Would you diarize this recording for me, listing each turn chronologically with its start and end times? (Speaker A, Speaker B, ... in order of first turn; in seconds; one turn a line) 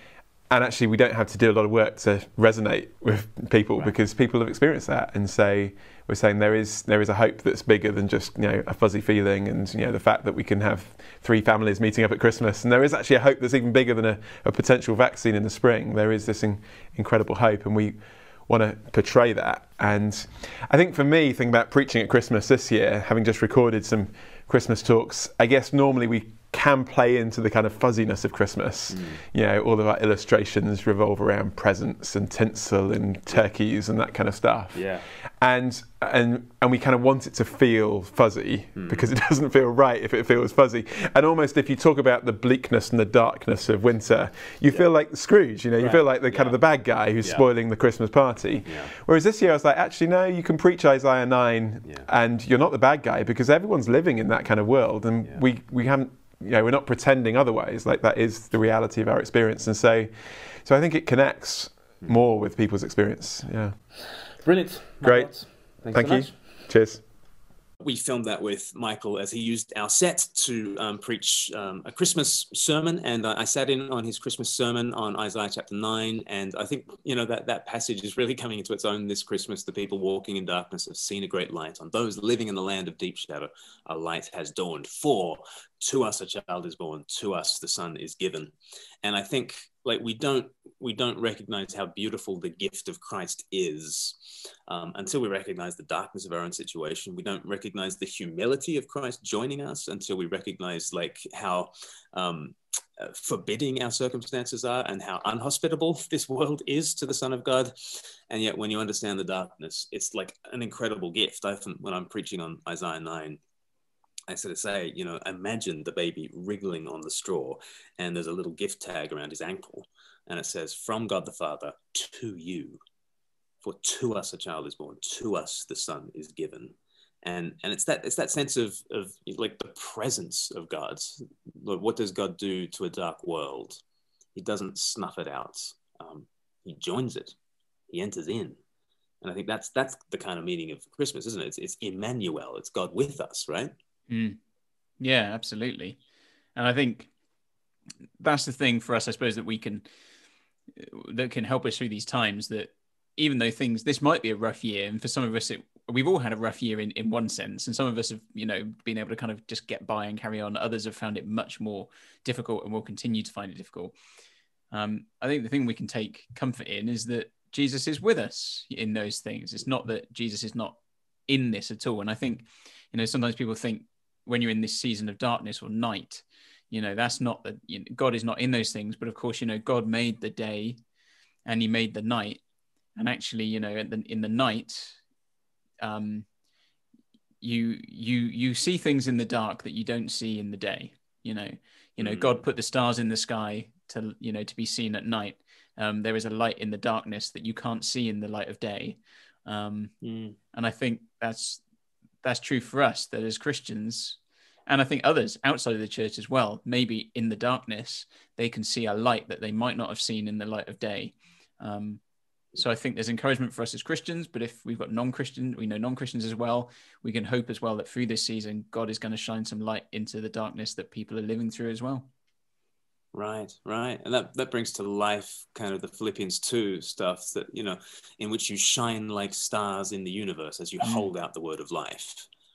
Speaker A: 0.5-34.9
Speaker B: 28.9-29.2
Speaker B: 34.7-35.1
Speaker A: 35.4-63.8
Speaker B: 38.8-39.1
Speaker B: 45.8-46.6
Speaker B: 47.2-47.5
Speaker B: 48.6-48.9
Speaker B: 64.4-66.3
Speaker A: 65.0-67.0
Speaker B: 67.8-113.4
Speaker B: 114.3-122.8
Speaker B: 123.6-133.8
Speaker B: 134.3-137.3
Speaker B: 137.9-138.6
Speaker B: 139.2-143.7
Speaker C: 144.1-144.4
Speaker C: 145.0-146.0
Speaker C: 146.6-147.1
Speaker C: 148.2-149.9
Speaker C: 150.7-163.9
Speaker C: 164.7-180.8
Speaker C: 181.4-182.4
Speaker C: 182.9-185.0
Speaker C: 185.8-186.3
Speaker C: 187.4-200.0
Speaker B: 192.0-192.4
Speaker B: 200.0-200.4
Speaker C: 200.5-201.6
Speaker C: 202.2-212.0
Speaker C: 212.5-222.1
Speaker B: 223.1-232.3